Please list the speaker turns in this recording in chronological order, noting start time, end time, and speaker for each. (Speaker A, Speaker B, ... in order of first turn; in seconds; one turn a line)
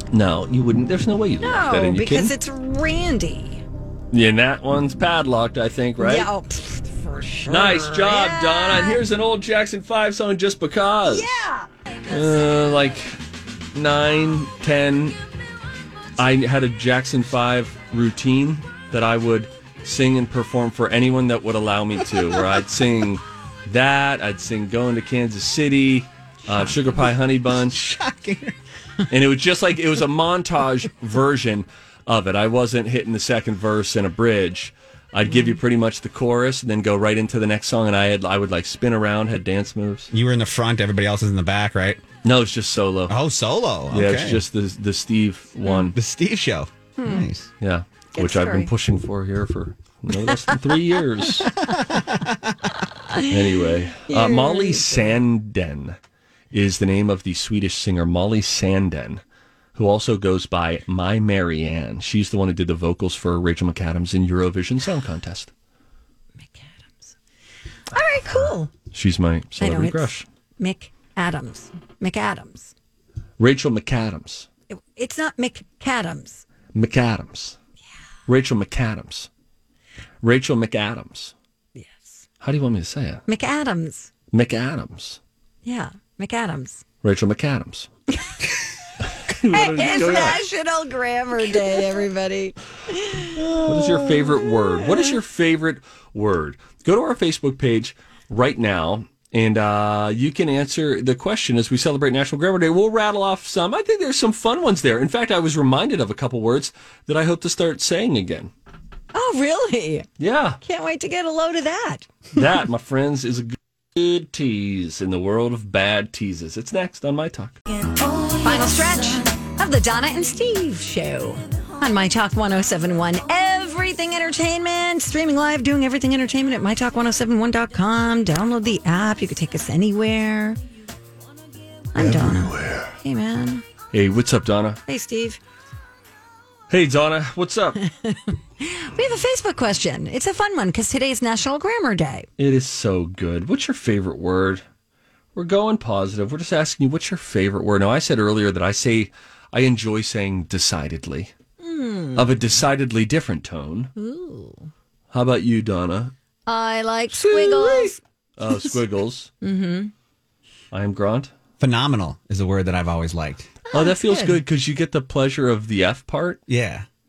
Speaker A: 0.1-2.3
Speaker B: 1.4-3.6
Speaker A: 4.1-6.3
Speaker B: 6.0-9.0
Speaker A: 7.5-11.5
Speaker B: 11.1-12.2
Speaker A: 12.1-13.2
Speaker A: 13.7-15.2
Speaker A: 16.2-27.8
Speaker C: 27.5-28.6
Speaker A: 29.1-40.1
Speaker B: 35.3-35.6
Speaker C: 40.1-42.0
Speaker A: 42.2-43.1
Speaker C: 43.1-44.4
Speaker A: 43.9-46.0
Speaker B: 45.6-45.9
Speaker C: 45.9-47.5
Speaker B: 47.0-47.2
Speaker A: 47.6-51.5
Speaker B: 48.1-48.7
Speaker C: 51.7-52.6
Speaker B: 52.8-53.3
Speaker A: 53.3-56.0
Speaker B: 54.1-55.2
Speaker A: 56.5-59.2
Speaker A: 59.8-65.5
Speaker B: 66.5-67.2
Speaker B: 67.9-68.7
Speaker A: 68.3-70.3
Speaker B: 69.6-72.7
Speaker A: 73.4-74.5
Speaker B: 74.7-76.5
Speaker A: 76.7-77.6
Speaker A: 78.3-79.3
Speaker A: 80.2-81.3
Speaker B: 81.8-82.2
Speaker A: 82.4-83.2
Speaker B: 83.3-84.1
Speaker A: 84.3-85.2
Speaker B: 85.6-86.8
Speaker A: 87.0-87.9
Speaker A: 89.1-90.4
Speaker B: 89.5-93.6
Speaker A: 93.5-108.5
Speaker B: 94.5-95.1
Speaker B: 109.1-110.1
Speaker A: 110.2-110.6
Speaker B: 110.6-112.1
Speaker A: 112.3-117.6
Speaker B: 118.4-130.6
Speaker B: 131.9-133.6
Speaker A: 132.0-133.0
Speaker A: 133.9-134.8
Speaker B: 134.9-135.4
Speaker A: 136.7-137.8
Speaker B: 138.0-142.3
Speaker A: 142.4-144.6
Speaker A: 145.3-151.3
Speaker B: 151.6-152.4
Speaker A: 152.2-153.9
Speaker B: 154.0-154.7
Speaker A: 155.1-156.1
Speaker B: 156.5-158.0
Speaker A: 157.1-159.3
Speaker B: 159.4-159.9
Speaker A: 160.7-161.3
Speaker C: 161.6-163.5
Speaker B: 163.7-164.4
Speaker A: 163.7-166.4
Speaker C: 166.5-166.9